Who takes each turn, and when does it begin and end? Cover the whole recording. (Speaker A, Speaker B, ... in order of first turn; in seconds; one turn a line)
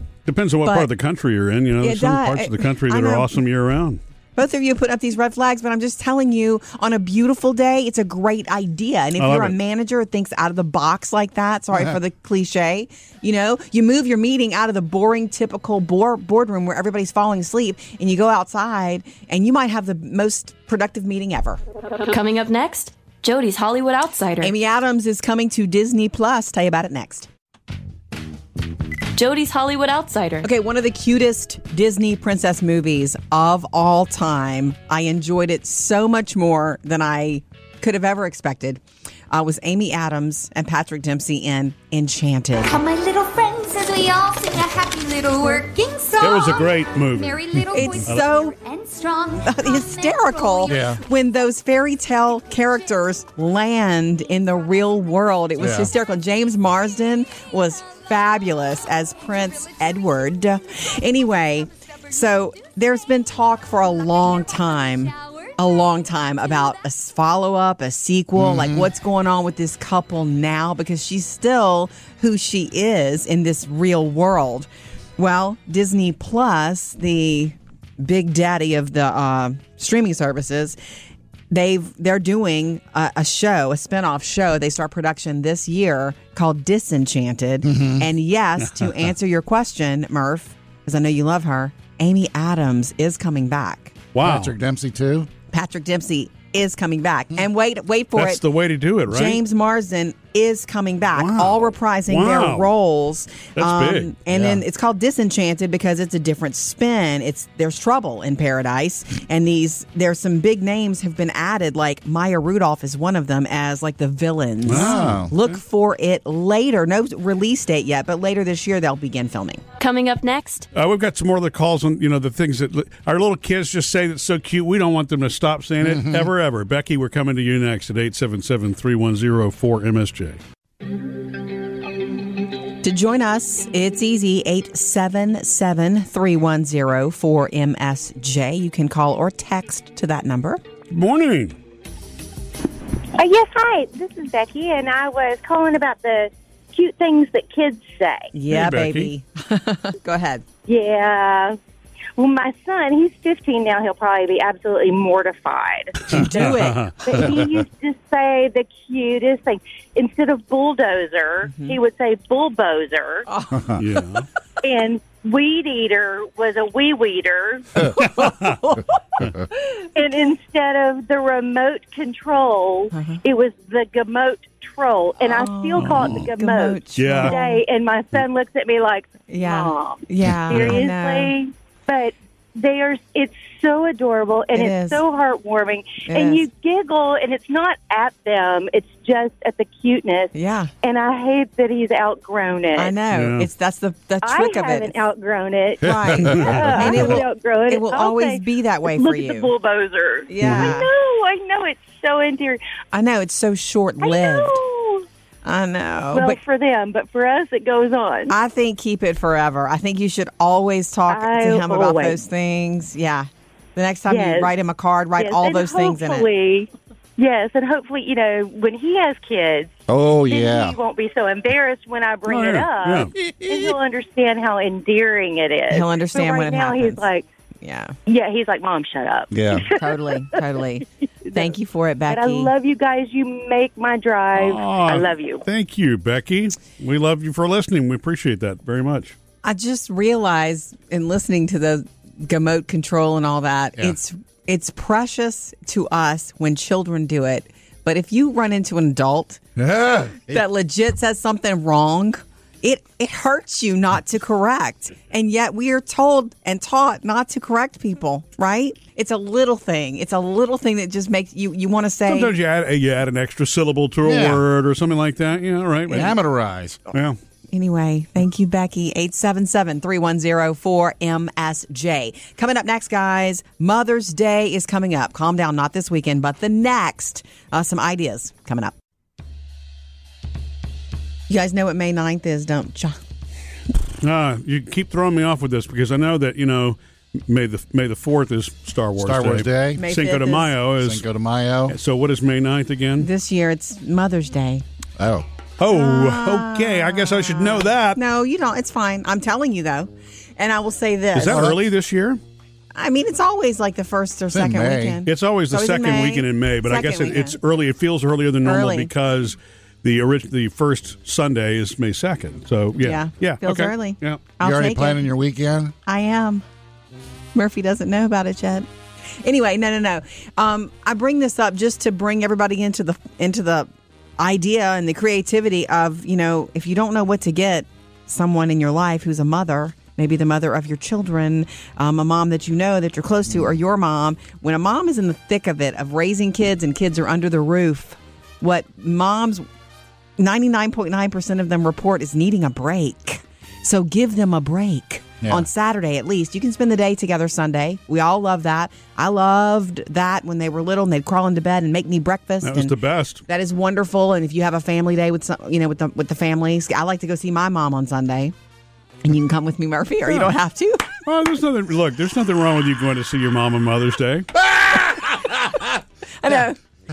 Speaker A: 0.3-4.0
Speaker B: 0.6-0.9
Speaker B: 1.8-3.3
Speaker B: 4.4-21.6
Speaker A: 9.2-9.6
Speaker C: 22.1-24.5
Speaker B: 24.4-27.3
Speaker C: 29.1-30.5
Speaker B: 30.4-42.8
Speaker D: 42.6-50.8
Speaker A: 46.2-48.3
Speaker B: 47.7-48.5
Speaker B: 49.5-80.8
Speaker E: 50.7-51.0
Speaker E: 55.6-55.9
Speaker E: 68.4-68.9
Speaker B: 81.5-94.0
Speaker E: 87.6-88.1
Speaker A: 94.1-94.5
Speaker E: 94.2-95.3
Speaker B: 95.5-98.4
Speaker A: 98.2-99.4
Speaker B: 99.1-119.6
Speaker A: 101.2-102.7
Speaker A: 103.6-104.6
Speaker A: 114.7-115.5
Speaker E: 114.7-115.4
Speaker C: 119.8-120.7
Speaker A: 120.7-130.4
Speaker E: 125.8-126.3
Speaker B: 132.8-140.6
Speaker A: 140.9-141.6
Speaker F: 143.2-148.3
Speaker B: 148.3-150.4
Speaker A: 148.5-149.1
Speaker F: 150.7-151.6
Speaker F: 152.2-163.3
Speaker A: 156.1-157.1
Speaker B: 156.1-156.9
Speaker B: 161.5-161.8
Speaker B: 163.3-163.8
Speaker A: 163.8-164.3
Speaker F: 164.6-168.0
Speaker B: 167.9-169.5
Speaker F: 169.9-192.9
Speaker B: 172.9-173.2
Speaker B: 175.2-177.6
Speaker A: 177.0-177.4
Speaker B: 179.3-181.3
Speaker B: 184.5-185.0
Speaker B: 186.1-186.4
Speaker B: 190.3-190.7
Speaker B: 192.8-194.9
Speaker A: 193.1-193.5
Speaker F: 194.2-202.6
Speaker B: 195.8-199.5
Speaker E: 195.9-196.6
Speaker B: 200.3-200.9
Speaker B: 202.9-204.6
Speaker F: 204.0-205.1
Speaker B: 205.4-206.4
Speaker F: 206.1-208.3
Speaker B: 208.3-216.3
Speaker F: 211.1-212.2
Speaker F: 214.1-214.5
Speaker F: 215.2-219.7
Speaker E: 219.9-220.8
Speaker F: 220.3-227.3
Speaker A: 222.3-223.1
Speaker B: 225.7-227.1
Speaker B: 227.6-227.9
Speaker F: 228.1-230.4
Speaker E: 229.3-229.7
Speaker B: 229.8-232.5
Speaker F: 231.3-231.5
Speaker F: 232.1-235.4
Speaker A: 234.3-239.2
Speaker B: 239.4-249.4
Speaker E: 249.6-250.4
Speaker B: 250.3-262.3
Speaker A: 262.1-266.1
Speaker E: 264.0-264.4
Speaker E: 265.9-266.8
Speaker A: 266.9-267.2
Speaker B: 267.5-278.7
Speaker B: 281.3-283.0
Speaker A: 284.0-291.1
Speaker E: 289.0-289.9
Speaker B: 289.8-290.5
Speaker E: 290.8-291.8
Speaker A: 291.7-293.1
Speaker B: 293.0-294.6
Speaker E: 295.0-295.3
Speaker A: 295.6-298.0
Speaker B: 295.7-301.5
Speaker A: 301.1-302.2
Speaker E: 301.3-301.6
Speaker B: 302.8-307.4
Speaker E: 304.3-305.0
Speaker A: 305.1-314.2
Speaker B: 308.4-308.9
Speaker B: 312.8-315.1
Speaker E: 314.4-315.8
Speaker B: 315.9-316.4
Speaker B: 317.4-318.7
Speaker B: 319.2-339.4
Speaker B: 340.2-352.8
Speaker E: 345.2-345.5
Speaker A: 352.4-353.2
Speaker B: 353.3-358.3
Speaker B: 359.0-360.9
Speaker A: 361.1-364.3
Speaker E: 364.3-365.8
Speaker B: 366.2-366.6